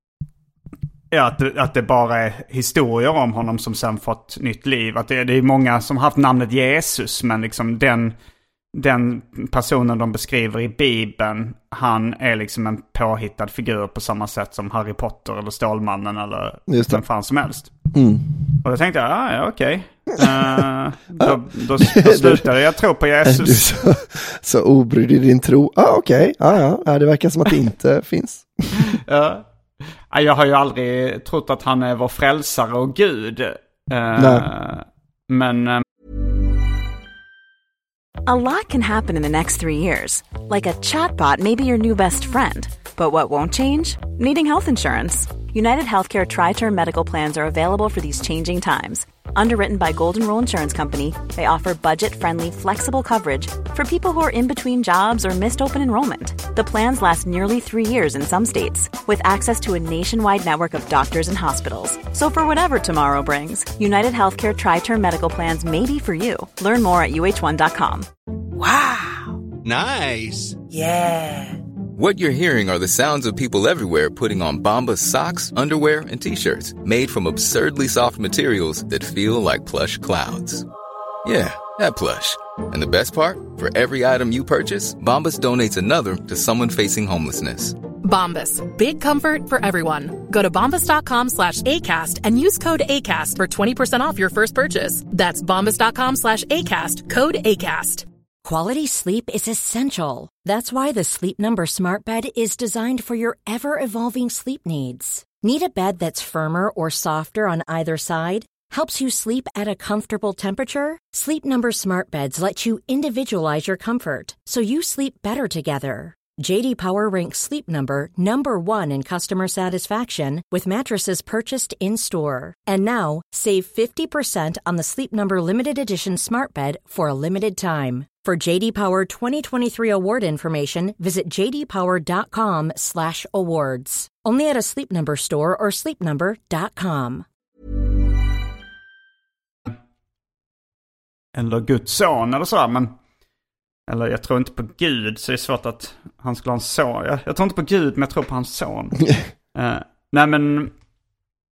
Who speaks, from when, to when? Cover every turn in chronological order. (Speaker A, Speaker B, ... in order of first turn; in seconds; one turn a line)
Speaker A: 1.1-8.2
Speaker A: 8.7-17.7
Speaker B: 16.7-17.0
Speaker B: 17.9-18.5
Speaker A: 18.6-23.6
Speaker B: 20.2-20.6
Speaker B: 21.2-22.4
Speaker B: 23.2-28.8
Speaker A: 28.8-29.4
Speaker A: 30.1-35.8
Speaker B: 34.2-34.5
Speaker C: 38.3-69.4
Speaker C: 70.8-71.5
Speaker D: 72.0-80.7
Speaker D: 81.2-87.8
Speaker E: 88.0-98.1
Speaker F: 98.4-137.2
Speaker A: 141.3-142.9
Speaker A: 143.9-149.0
Speaker A: 149.6-150.7